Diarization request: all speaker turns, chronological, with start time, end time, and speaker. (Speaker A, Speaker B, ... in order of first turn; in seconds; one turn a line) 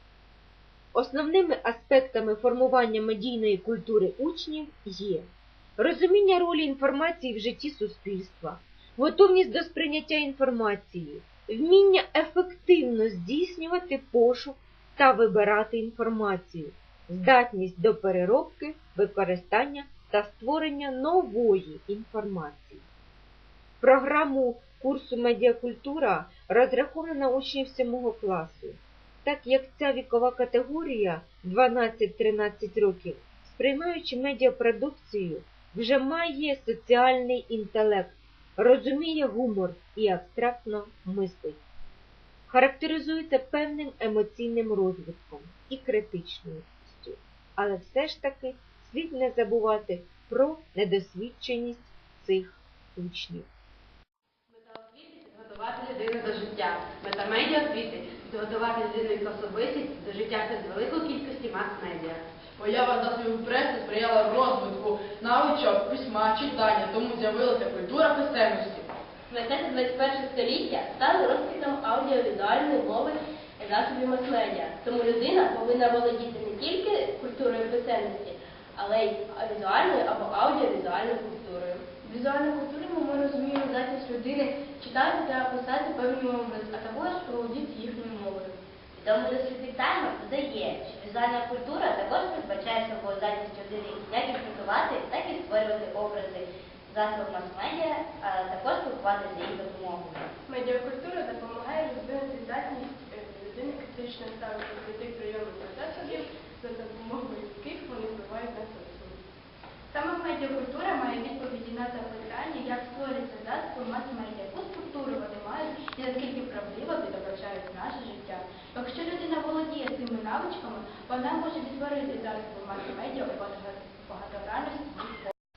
Speaker A: 0.9-22.8
Speaker A: 23.8-41.6
Speaker A: 42.5-53.5
Speaker B: 54.5-62.2
Speaker C: 62.6-68.9
Speaker D: 69.3-88.6
Speaker E: 88.9-100.3
Speaker D: 100.5-109.2
Speaker D: 109.9-125.3